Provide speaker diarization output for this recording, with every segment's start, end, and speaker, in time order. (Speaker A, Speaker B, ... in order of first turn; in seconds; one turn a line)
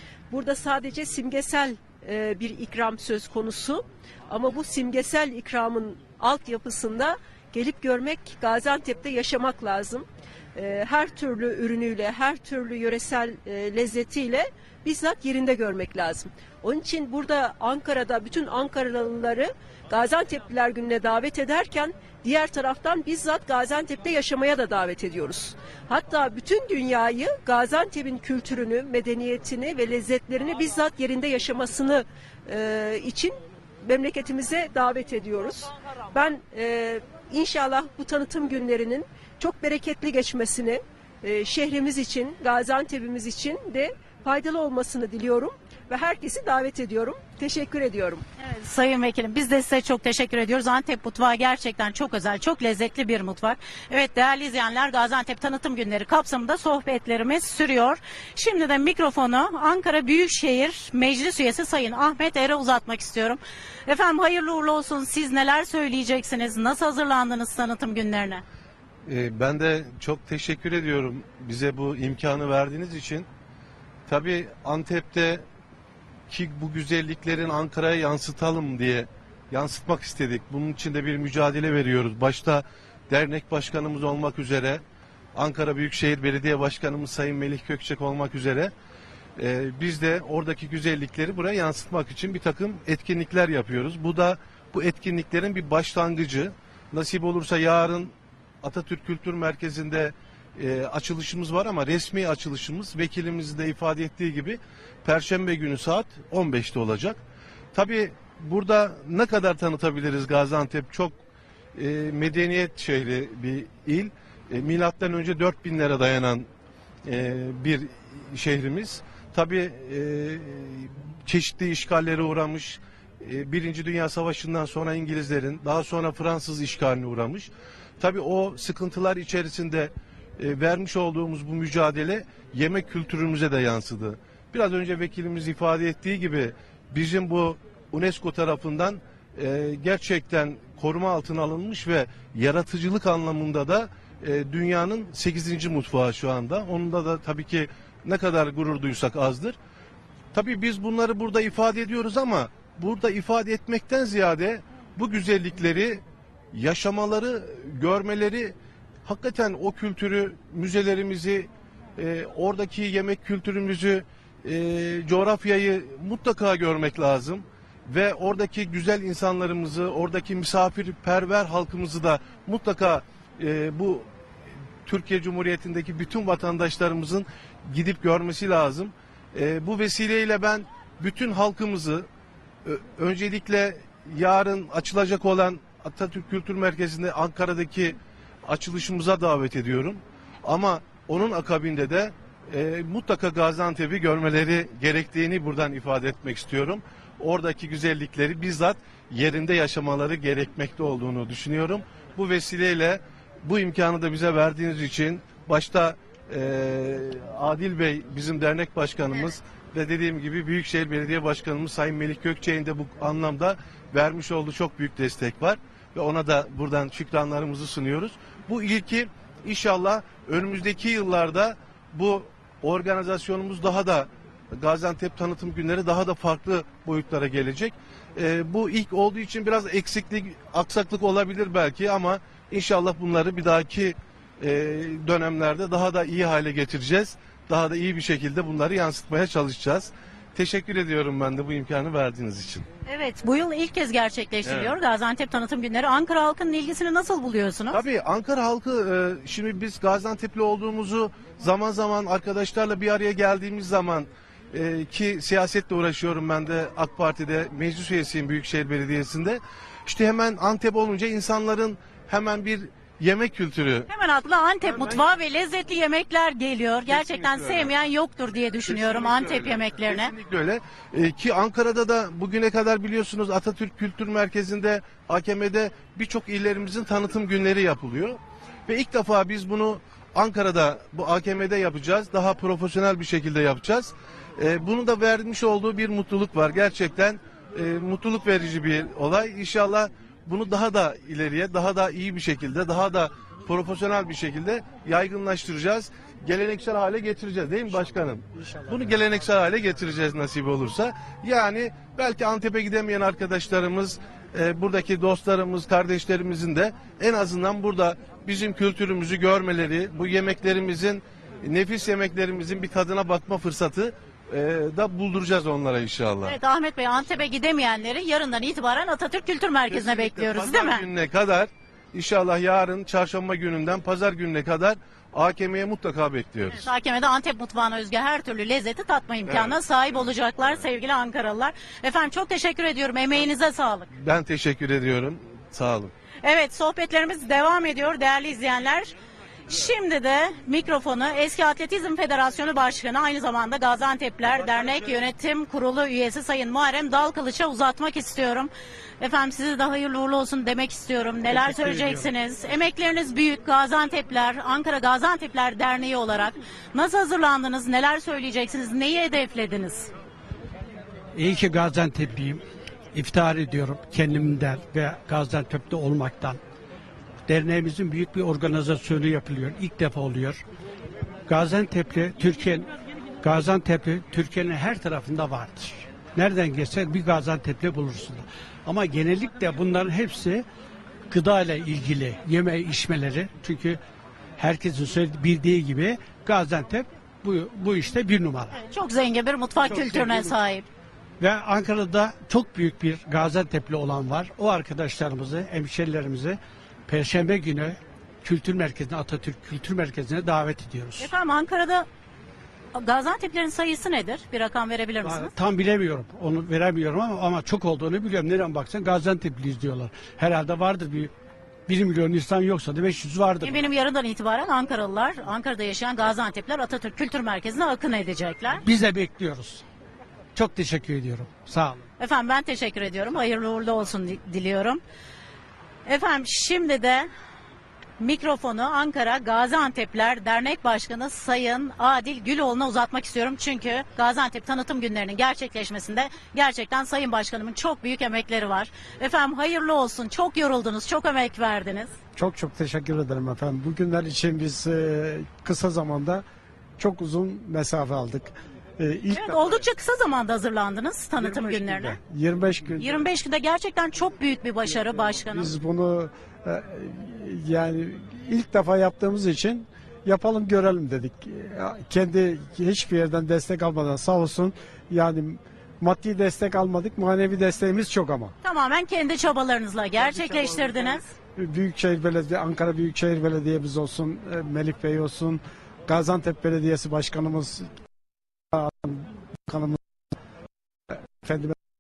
Speaker A: 0.3-48.2
Speaker B: 48.4-68.4
Speaker C: 69.1-73.3
Speaker C: 74.1-75.4
Speaker C: 76.3-84.8
Speaker C: 85.3-88.7
Speaker C: 89.4-107.2
Speaker C: 107.7-111.2
Speaker C: 111.8-116.5
Speaker C: 117.1-149.6
Speaker C: 150.3-156.0
Speaker C: 156.5-174.1
Speaker C: 174.9-182.1
Speaker C: 182.7-242.6
Speaker B: 242.9-247.8
Speaker C: 247.7-263.9
Speaker B: 263.9-270.1
Speaker C: 267.1-267.6
Speaker C: 268.7-316.3
Speaker B: 316.2-320.9
Speaker C: 319.8-326.7
Speaker B: 326.5-333.9
Speaker C: 334.0-335.9
Speaker B: 336.2-338.9
Speaker B: 339.5-359.9
Speaker D: 361.1-362.4
Speaker D: 362.9-366.4
Speaker D: 367.3-370.4
Speaker D: 371.3-372.7
Speaker D: 373.2-380.4
Speaker D: 381.1-383.8
Speaker D: 384.4-388.5
Speaker B: 388.5-390.7
Speaker D: 389.7-390.2
Speaker D: 391.2-401.1
Speaker B: 401.0-401.9
Speaker B: 402.8-405.3
Speaker D: 405.0-411.1
Speaker D: 411.7-413.5
Speaker B: 413.4-418.6
Speaker D: 418.6-419.6
Speaker D: 420.4-421.8
Speaker B: 422.0-424.8
Speaker B: 425.9-427.1
Speaker B: 428.0-441.9
Speaker E: 442.1-446.2
Speaker E: 446.8-449.6
Speaker B: 449.1-452.0
Speaker E: 451.2-452.9
Speaker B: 452.8-455.5
Speaker E: 455.3-468.3
Speaker B: 468.4-471.1
Speaker E: 471.4-477.7
Speaker E: 478.5-479.8
Speaker E: 481.2-481.6